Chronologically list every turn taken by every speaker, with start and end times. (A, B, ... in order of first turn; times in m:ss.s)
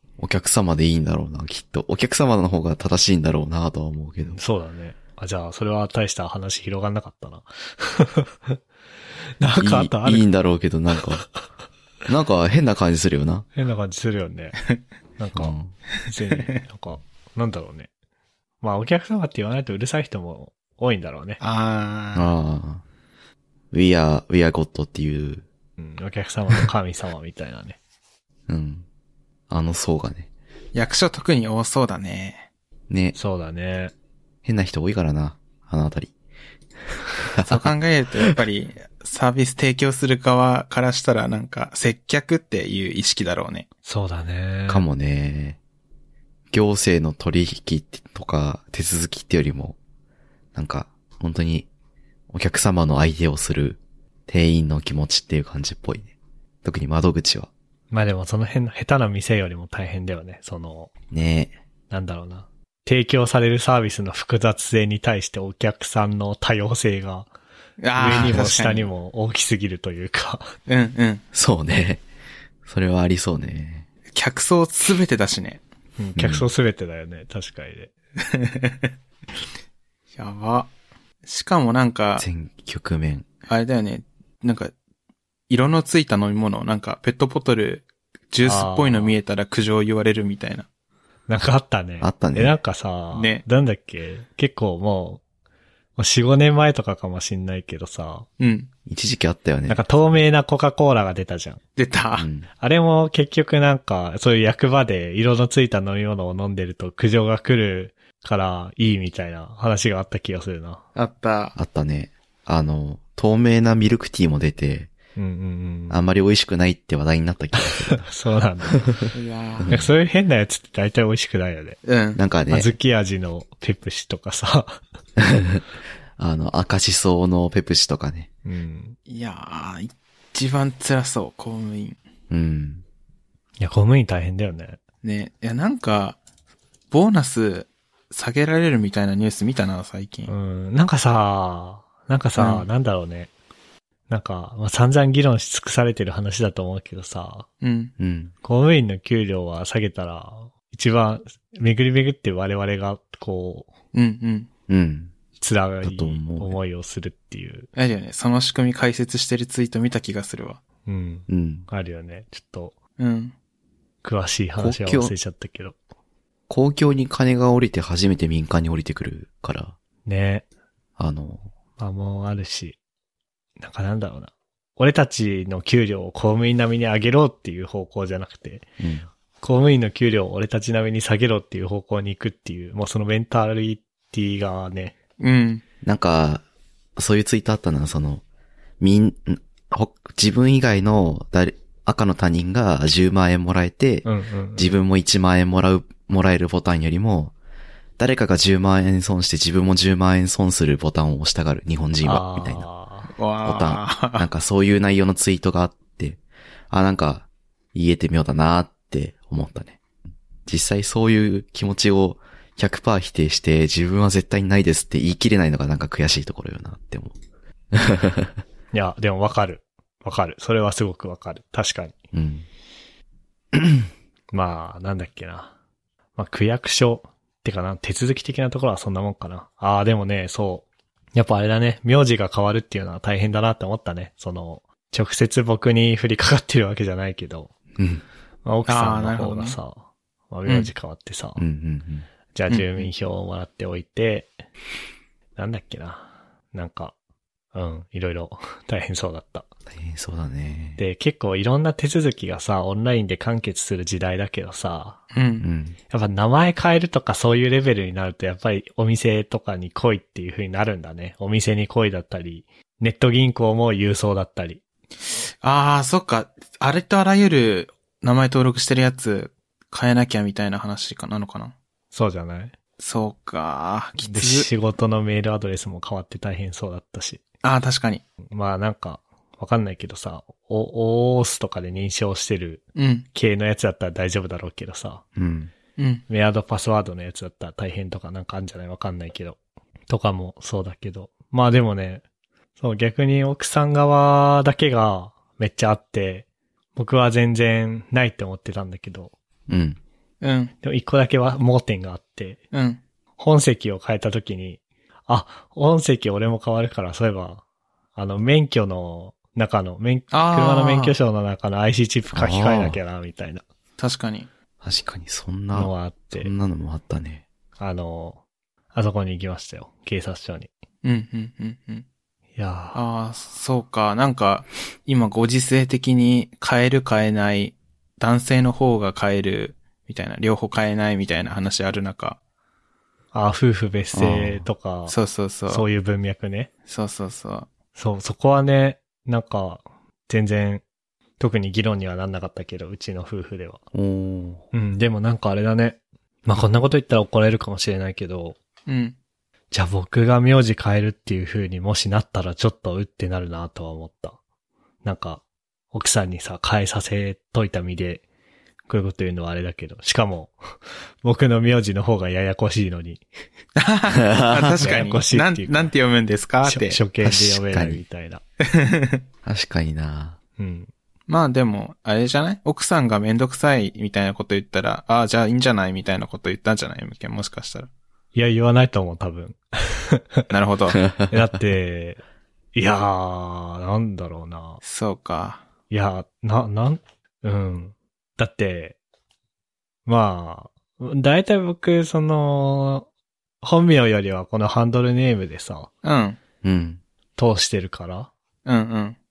0:00.2-0:04.4 A
0:04.4-0:08.6 B
0:09.4-0:10.3 B
0:09.6-0:11.2 A
0:12.1-0:13.5 A
0:13.6-0:14.6 B
0:15.2-0:17.9 B
0:15.4-0:15.7 A
0:18.6-0:21.4 B
0:21.4-0:22.3 C
0:22.2-0:22.8 A
0:23.7-0:25.4 A
0:25.8-0:27.8 B
0:28.5-0:28.8 A
0:29.5-0:30.3 A
0:30.7-0:32.5 C
0:32.9-0:33.2 A
0:33.2-0:33.9 B
0:34.4-0:36.1 A
0:37.3-0:37.7 A
0:37.4-0:43.7 C
0:43.8-0:44.9 B
0:44.7-0:45.6 A
0:46.5-0:49.8 A
0:50.6-0:51.7 A
0:52.3-0:56.1 A
0:56.6-0:57.5 A
0:57.9-1:00.9 B
1:01.1-1:01.6 A
1:01.9-1:07.3 B
1:07.8-1:08.9 C
1:08.0-1:10.5 B
1:10.7-1:11.2 C
1:11.3-1:12.0 A
1:12.6-1:13.8 A
1:14.1-1:15.6 C
1:16.0-1:17.9 B
1:16.2-1:16.5 A
1:18.3-1:18.9 C
1:20.2-1:20.7 C
1:21.2-1:22.3 C
1:22.2-1:23.3 A
1:23.5-1:24.7 C
1:25.5-1:30.7 C
1:28.4-1:29.1 B
1:31.3-1:35.2 B
1:32.0-1:32.6 A
1:33.1-1:33.4 C
1:36.0-1:38.3 B
1:38.4-1:38.7 C
1:38.9-1:39.8 A
1:39.7-1:41.6 B
1:41.8-1:42.3 C
1:42.2-1:42.5 A
1:42.6-1:50.8 B
1:51.0-1:51.6 C
1:51.6-1:54.9 A
1:55.2-1:56.0 B
1:55.9-1:58.0 A
1:57.7-1:59.1 B
1:59.1-1:59.7 C
1:59.6-1:59.9 A
1:59.7-2:01.8 B
2:01.8-2:02.2 C
2:02.2-2:02.7 A
2:02.5-2:04.8 B
2:05.2-2:05.6 A
2:06.2-2:08.3 A
2:08.5-2:09.0 B
2:09.1-2:12.0 C
2:12.3-2:12.8 A
2:13.6-2:14.8 B
2:15.0-2:16.2 C
2:16.9-2:20.3 C
2:20.3-2:23.3 B
2:22.4-2:22.7 C
2:24.1-2:27.5 B
2:27.6-2:27.9 C
2:28.0-2:28.3 A
2:28.4-2:33.7 B
2:33.9-2:34.5 C
2:34.7-2:35.1 A
2:35.4-2:37.7 B
2:35.8-2:36.6 A
2:37.8-2:40.6 C
2:40.9-2:42.8 B
2:41.3-2:41.7 A
2:43.0-2:43.4 C
2:44.0-2:45.8 B
2:44.6-2:45.1 A
2:46.5-2:49.8 A
2:50.1-2:50.4 B
2:51.0-2:51.5 A
2:51.8-2:52.8 B
2:53.6-2:58.7 B
2:58.8-2:59.1 A
2:59.4-3:05.0 B
3:05.2-3:05.6 C
3:05.8-3:06.4 A
3:07.0-3:08.2 A
3:08.8-3:14.0 A
3:14.0-3:14.7 B
3:14.6-3:17.3 A
3:18.0-3:22.7 A
3:22.0-3:23.1 B
3:23.2-3:24.3 C
3:23.4-3:29.8 A
3:30.5-3:37.2 A
3:37.7-3:38.4 A
3:38.7-3:42.0 B
3:42.1-3:42.5 A
3:43.5-3:43.9 A
3:44.3-3:45.5 B
3:46.2-3:57.6 B
3:57.8-3:58.0 A
3:58.5-3:59.8 B
3:58.7-3:59.6 C
4:00.3-4:01.4 B
4:01.4-4:02.1 A
4:02.4-4:04.3 B
4:02.5-4:02.9 C
4:05.4-4:06.9 B
4:07.5-4:09.5 B
4:09.7-4:10.8 A
4:10.8-4:15.0 B
4:15.1-4:15.4 C
4:15.4-4:15.8 A
4:15.9-4:24.6 B
4:25.4-4:31.5 C
4:31.9-4:32.5 B
4:32.8-4:34.5 C
4:34.0-4:37.2 B
4:37.4-4:38.0 C
4:38.3-4:45.0 B
4:42.8-4:43.1 C
4:45.2-4:45.5 A
4:45.8-4:46.0 C
4:46.1-4:52.0 B
4:52.6-4:59.1 B
4:59.5-4:59.8 A
5:00.2-5:00.5 C
5:00.6-5:02.4 B
5:02.5-5:02.8 C
5:03.2-5:07.4 B
5:08.0-5:13.4 B
5:10.1-5:11.0 C
5:12.1-5:12.8 A
5:13.8-5:14.3 C
5:14.6-5:17.2 A
5:15.5-5:16.3 B
5:17.6-5:18.2 B
5:18.7-5:20.5 B
5:20.8-5:21.8 C
5:22.4-5:22.8 B
5:22.7-5:32.2 C
5:33.1-5:35.0 B
5:33.9-5:34.5 A
5:34.9-5:35.6 C
5:35.5-5:36.5 B
5:36.7-5:37.5 C
5:37.8-5:40.6 B
5:41.2-5:43.6 B
5:43.7-5:44.4 A
5:44.5-5:48.4 B
5:48.7-5:49.0 C
5:49.5-5:54.2 B
5:54.8-5:55.2 B
5:55.7-5:58.0 B
5:58.7-6:00.4 B
6:01.0-6:03.0 B
6:03.6-6:06.8 C
6:04.0-6:04.6 A
6:04.6-6:05.7 B
6:06.4-6:08.2 B
6:07.0-6:07.8 A
6:08.4-6:09.0 C
6:09.2-6:10.2 A
6:10.4-6:10.7 B
6:11.1-6:17.7 C
6:18.2-6:20.2 B
6:20.3-6:20.8 C
6:21.1-6:22.0 B
6:22.6-6:24.6 B
6:24.6-6:25.4 C
6:25.7-6:28.8 B
6:29.9-6:32.9 B
6:33.4-6:35.7 B
6:35.8-6:36.2 C
6:36.4-6:36.8 A
6:37.2-6:38.1 B
6:38.4-6:39.0 C